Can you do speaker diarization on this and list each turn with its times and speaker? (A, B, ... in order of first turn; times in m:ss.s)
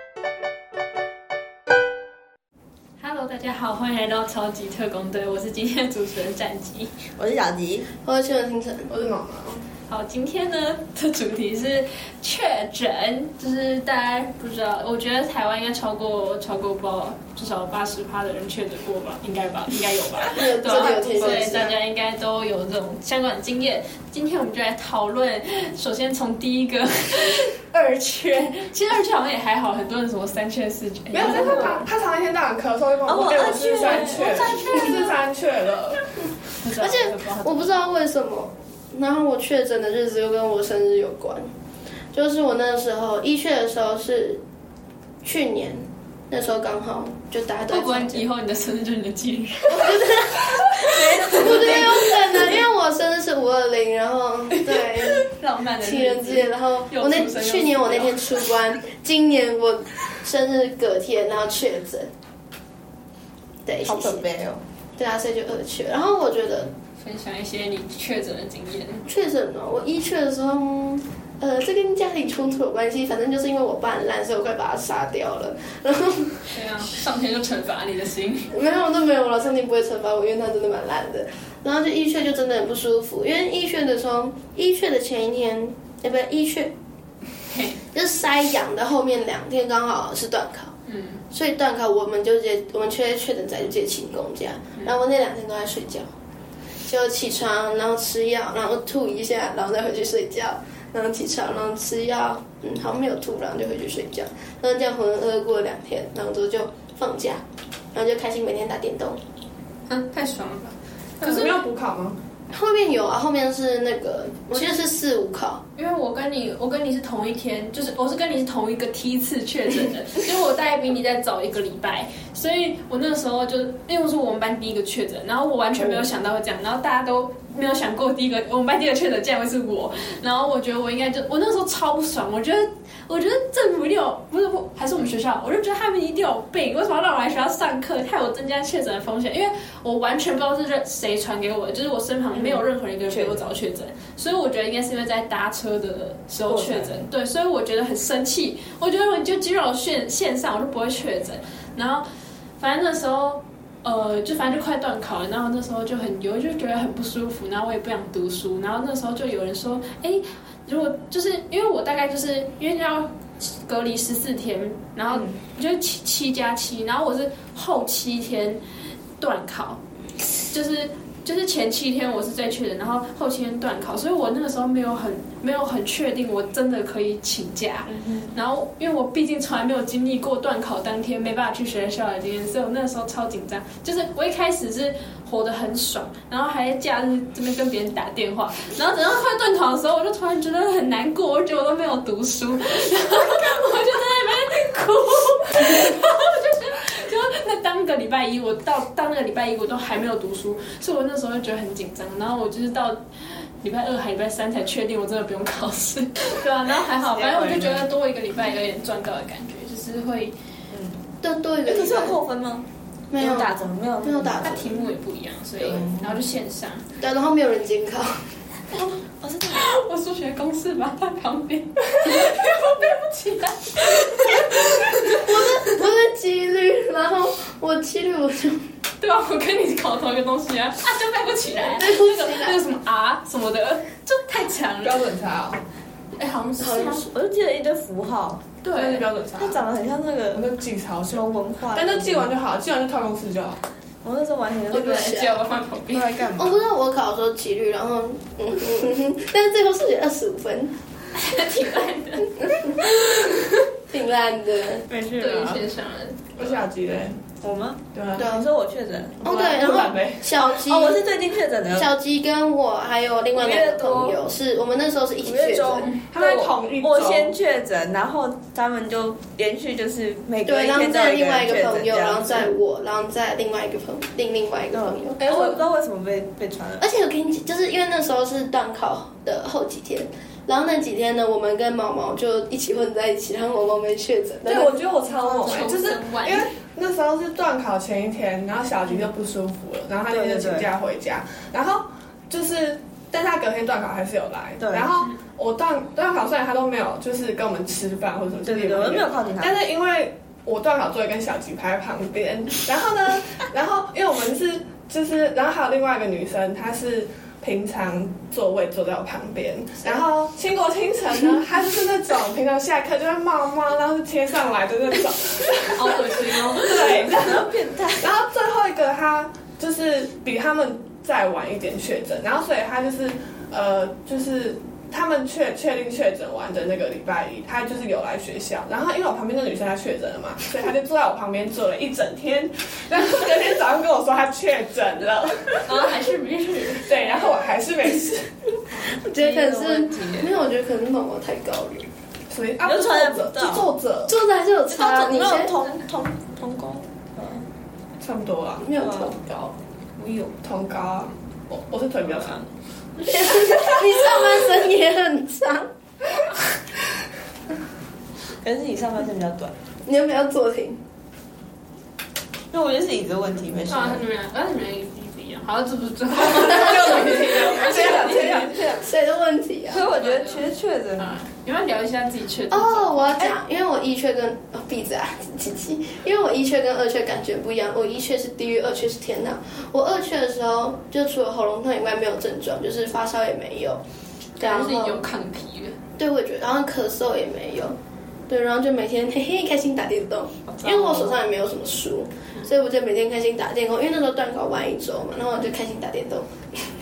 0:03.0-0:06.9 A
0:07.2-0:07.9 B
0:08.0-0:08.9 C
0:08.9-0:09.6 D
0:09.9-0:31.9 A
0:20.3-0:21.8 C
0:20.8-0:21.5 B
0:31.1-0:36.0 D
0:33.1-0:34.5 B
0:33.7-0:35.2 A
0:36.6-0:37.8 A
0:36.8-0:41.5 C
0:42.1-0:44.4 C
0:45.2-0:48.3 C
0:47.7-0:52.6 A
0:49.7-0:55.3 C
0:54.8-0:58.4 A
0:55.8-1:02.1 C
1:03.7-1:04.3 C
1:03.8-1:04.6 B
1:05.0-1:06.7 C
1:07.0-1:09.0 A
1:09.1-1:16.5 C
1:16.5-1:18.5 A
1:18.5-1:26.7 C
1:27.5-1:27.8 A
1:27.9-1:30.7 C
1:30.9-1:31.2 A
1:31.3-1:36.1 C
1:36.9-1:47.4 C
1:47.9-1:49.2 C
1:49.9-1:51.6 A
1:51.2-1:52.2 D
1:52.5-1:55.6 C
1:54.5-1:54.9 A
1:55.8-2:32.1 A
2:05.8-2:06.0 B
2:22.3-2:23.5 B
2:26.5-2:27.1 B
2:32.6-2:48.6 A
2:49.2-2:49.8 A
2:50.5-3:30.3 A
2:57.8-2:58.4 B
3:26.9-3:27.9 B
3:30.7-3:31.0 B
3:31.2-3:32.2 C
3:31.7-3:32.6 B
3:33.1-3:34.9 C
3:33.2-3:34.7 B
3:34.4-3:36.8 A
3:35.6-3:36.2 B
3:37.0-3:38.2 C
3:38.7-3:39.7 B
3:39.5-3:45.3 A
3:45.0-3:48.6 C
3:49.0-3:55.0 A
3:51.6-3:52.6 C
3:54.8-3:55.6 D
3:56.2-3:56.9 A
3:56.6-3:57.1 C
3:56.7-3:58.4 B
3:58.6-3:59.1 A
3:58.7-3:59.7 D
3:59.4-4:00.5 B
4:00.3-4:03.6 D
4:01.1-4:02.4 B
4:04.0-4:05.2 B
4:04.7-4:05.4 C
4:04.7-4:06.2 A
4:05.9-4:06.6 B
4:06.4-4:10.7 C
4:11.1-4:13.6 A
4:13.9-4:14.8 C
4:14.9-4:15.6 B
4:15.2-4:16.5 A
4:16.4-4:17.2 D
4:17.4-4:19.8 B
4:17.9-4:18.3 D
4:18.2-4:18.4 C
4:19.2-4:21.0 C
4:19.6-4:20.3 D
4:20.4-4:21.9 B
4:21.7-4:25.9 C
4:23.4-4:24.2 B
4:25.2-4:32.5 B
4:25.9-4:27.4 D
4:30.4-4:35.3 C
4:34.7-4:36.9 B
4:36.8-4:44.9 C
4:44.4-5:35.9 D
4:45.1-4:46.5 A
4:50.1-4:50.7 B
4:54.6-4:54.9 B
4:58.4-4:59.6 B
5:15.8-5:17.4 A
5:16.8-5:18.1 B
5:35.6-5:37.4 A
5:36.8-5:38.3 D
5:38.9-5:41.9 C
5:39.1-5:40.4 B
5:42.3-5:44.2 D
5:42.6-5:43.7 B
5:44.1-5:45.5 C
5:44.7-5:47.4 B
5:48.0-5:48.7 D
5:48.6-5:49.5 C
5:48.8-5:49.2 B
5:50.0-5:50.4 B
5:50.4-5:52.4 D
5:52.0-5:52.5 B
5:53.0-5:55.7 C
5:58.4-5:59.6 B
5:59.9-6:00.8 C
6:02.5-6:04.0 B
6:03.7-6:08.6 A
6:06.2-6:08.9 B
6:07.6-6:08.1 D
6:08.7-6:09.9 C
6:09.7-6:11.2 B
6:09.7-6:13.2 A
6:12.5-6:23.8 C
6:24.4-6:25.8 A
6:24.4-6:25.0 C
6:26.0-6:27.8 C
6:28.3-6:36.6 C
6:30.5-6:31.2 B